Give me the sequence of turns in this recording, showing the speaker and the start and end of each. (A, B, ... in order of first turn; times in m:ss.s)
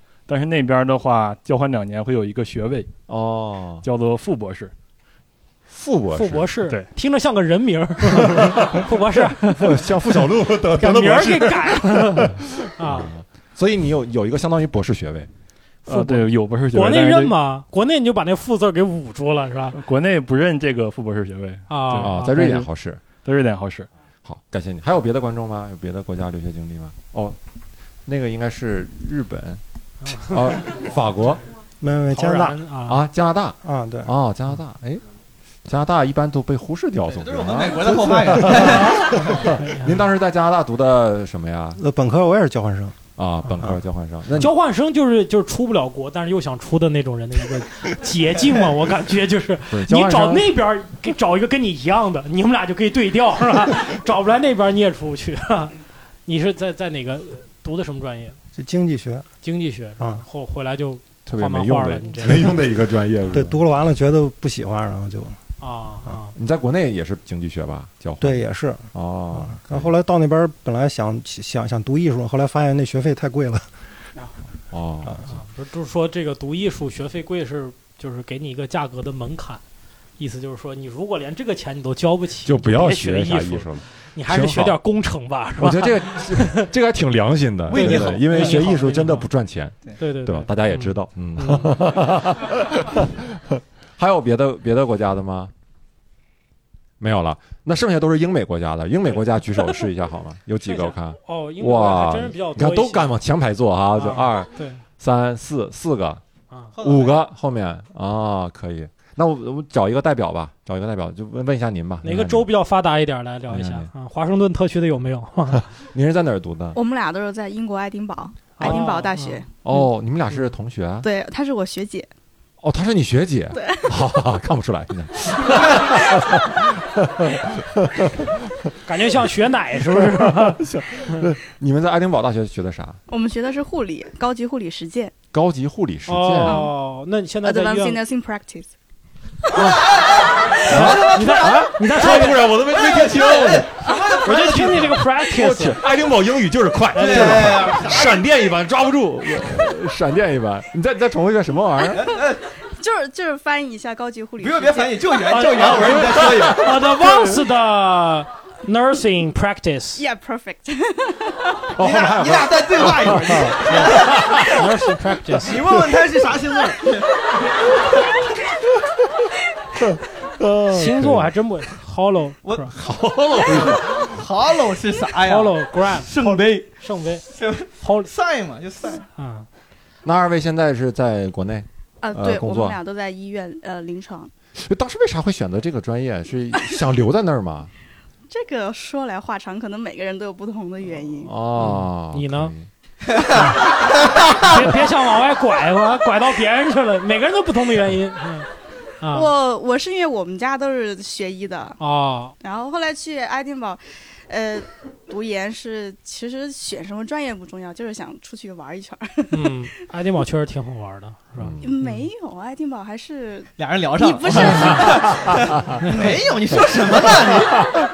0:00.3-0:02.9 A
0:03.1-0:03.8 B
0:03.8-0:04.7 A
0:05.7-0:06.5 B
0:06.1-0:09.8 C
0:08.2-0:08.9 B
0:09.5-0:15.3 B
0:10.8-0:13.1 C
0:15.8-0:19.8 C
0:15.9-0:17.4 A
0:19.7-0:22.7 A
0:21.7-0:22.4 C
0:22.0-0:23.0 B
0:23.2-0:23.9 A
0:24.2-0:27.4 B
0:28.0-0:29.6 B
0:30.0-0:30.6 C
0:30.2-0:31.4 B
0:31.8-0:32.6 D
0:32.1-0:33.0 C
0:32.8-0:35.0 B
0:33.6-0:34.1 D
0:35.6-0:41.8 B
0:37.1-0:39.5 E
0:38.4-0:40.0 C
0:41.8-0:43.0 D
0:43.2-0:44.5 B
0:44.4-0:58.4 C
0:49.7-0:50.5 B
0:58.6-0:59.2 D
0:59.4-1:02.6 C
1:01.2-1:03.6 B
1:03.3-1:05.4 D
1:05.6-1:06.3 C
1:06.3-1:09.9 B
1:08.2-1:13.7 D
1:14.7-1:15.2 B
1:15.3-1:19.6 C
1:20.2-1:26.6 C
1:22.4-1:24.8 B
1:25.6-1:35.5 B
1:27.7-1:29.3 C
1:27.8-1:28.1 E
1:30.0-1:31.7 C
1:37.0-1:46.2 B
1:40.7-1:43.2 C
1:44.0-1:44.8 C
1:46.7-1:47.2 E
1:46.8-1:52.5 B
1:52.0-1:55.6 C
1:53.5-1:53.9 B
1:55.8-1:56.8 B
1:56.7-1:59.4 F
1:58.6-1:59.4 C
1:59.6-2:01.1 B
2:01.0-2:02.1 F
2:02.6-2:08.4 B
2:03.5-2:03.8 F
2:08.8-2:11.3 C
2:09.8-2:13.0 B
2:13.1-2:15.1 F
2:15.3-2:16.6 B
2:16.1-2:18.0 C
2:16.4-2:16.7 F
2:17.4-2:18.7 F
2:19.5-2:19.8 C
2:20.6-2:23.9 B
2:20.6-2:22.5 C
2:20.8-2:21.7 E
2:22.9-2:23.5 F
2:23.0-2:24.9 E
2:24.2-2:25.8 C
2:25.1-2:32.1 B
2:26.9-2:27.8 C
2:27.0-2:28.2 E
2:32.0-2:32.4 E
2:32.8-2:35.1 F
2:34.4-2:36.8 E
2:35.3-2:40.0 C
2:35.7-2:36.8 B
2:40.0-2:41.7 F
2:41.7-2:44.6 B
2:41.8-2:44.2 E
2:44.4-2:45.6 C
2:45.4-2:47.1 E
2:49.8-2:51.3 B
2:50.7-2:52.7 C
2:52.7-2:54.2 B
2:53.6-2:56.7 E
2:55.2-2:57.2 C
2:57.3-2:59.0 E
2:57.8-2:58.1 C
2:59.1-2:59.5 C
3:00.0-3:02.8 B
3:02.0-3:04.3 F
3:04.6-3:07.7 B
3:08.3-3:11.3 F
3:11.2-3:12.7 B
3:11.6-3:12.5 C
3:13.3-3:18.5 C
3:19.0-3:19.3 C
3:19.1-3:21.8 F
3:21.8-3:22.3 C
3:22.4-3:29.6 F
3:29.3-3:32.1 C
3:31.4-3:31.7 B
3:31.6-3:35.2 F
3:33.6-3:37.7 E
3:34.5-3:35.7 B